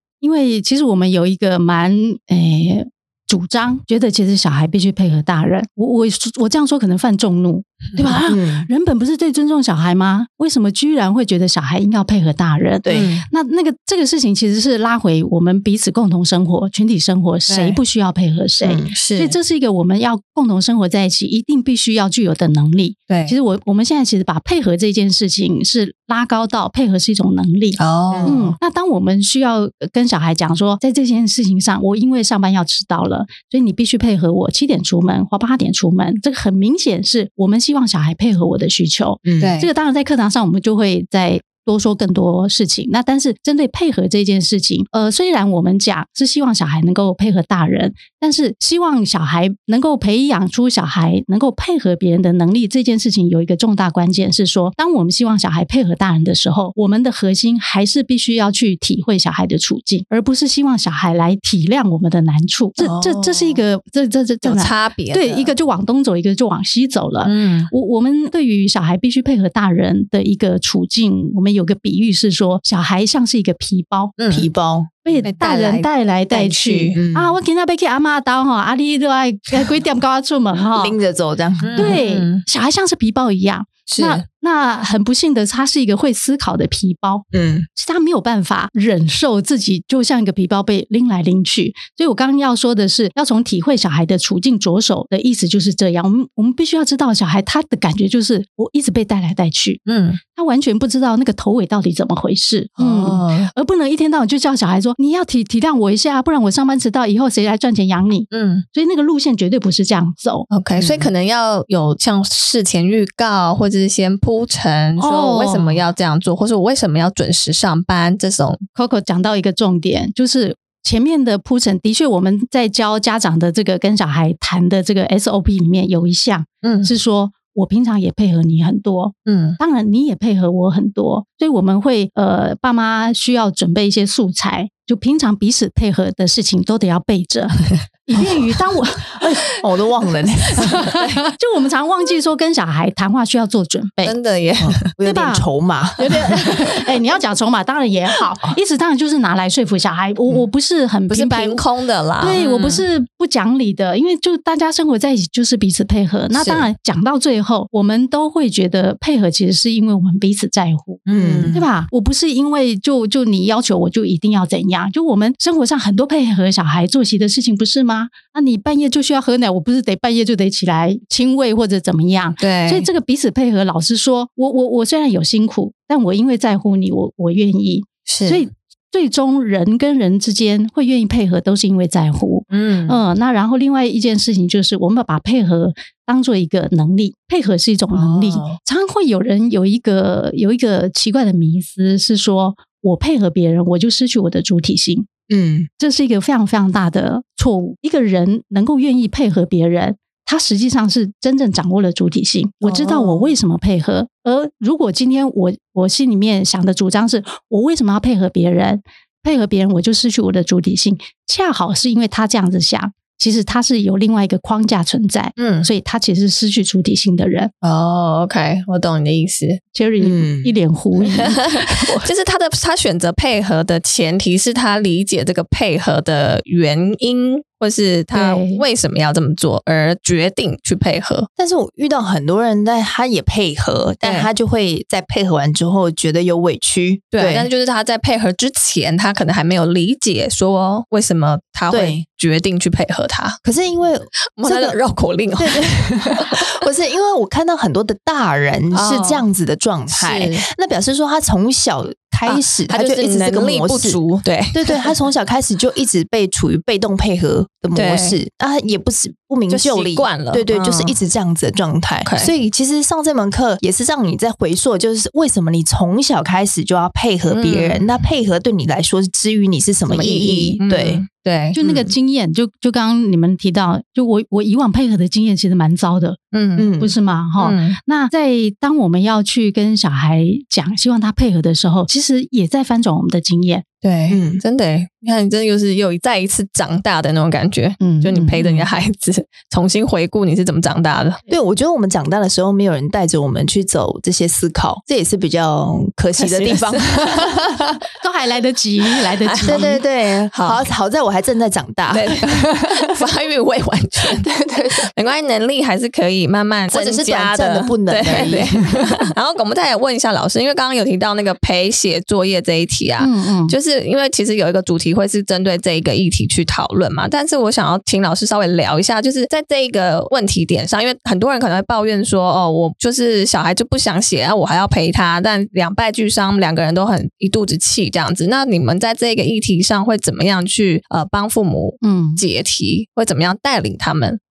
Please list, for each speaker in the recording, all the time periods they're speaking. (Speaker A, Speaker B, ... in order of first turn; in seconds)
Speaker A: 0.2-74.1, 75.0-81.0, 81.8-110.5, 115.0-115.8, 118.8-139.5, 140.6-144.2, 145.0-145.5, 146.0-151.6, 152.2-195.1, 195.8-217.5, 219.7-222.1, 228.1-228.6, 271.5-276.2, 276.8-283.6, 287.8-288.6, 298.0-299.8, 313.0-313.6, 331.8-332.2
Speaker B: 8.3-8.7, 12.8-13.2, 18.6-18.9, 28.1-28.6, 39.2-39.6, 74.3-75.2, 76.9-77.4, 80.8-82.0, 87.3-87.7, 110.8-111.1, 139.6-140.9, 144.6-146.5, 161.1-161.6, 195.3-195.7, 202.7-203.3, 220.0-220.5, 231.4-237.5, 241.7-242.0, 243.4-244.8, 245.4-254.0, 254.5-271.0, 271.6-271.9, 276.6-276.9, 284.1-284.4, 291.3-297.6, 299.4-302.5, 304.0-304.9, 306.7-308.8
Speaker C: 12.9-13.3, 17.5-17.8, 18.9-19.4, 23.1-23.3, 27.8-28.4, 39.4-39.7, 62.8-63.6, 64.4-65.5, 67.2-67.7, 74.2-74.5, 75.2-77.0, 81.6-82.4, 83.9-84.2, 99.9-100.2, 102.8-103.5, 108.3-108.7, 110.5-118.6, 126.6-126.9, 129.3-129.6, 140.8-141.2, 144.0-144.9, 151.1-152.8, 156.3-156.7, 161.1-161.7, 172.4-172.9, 178.1-178.4, 182.5-183.0, 187.9-188.6, 215.4-215.7, 217.6-219.6, 221.2-231.3, 234.0-234.3, 237.1-243.4, 244.4-246.5, 248.7-249.2, 249.9-250.4, 252.3-254.9, 257.8-258.2, 259.5-261.0, 262.1-262.3, 267.3-267.8, 269.9-271.6, 276.3-276.7, 277.4-277.8, 283.8-291.2, 296.2-297.2, 299.2-300.6, 301.9-304.3, 304.8-334.2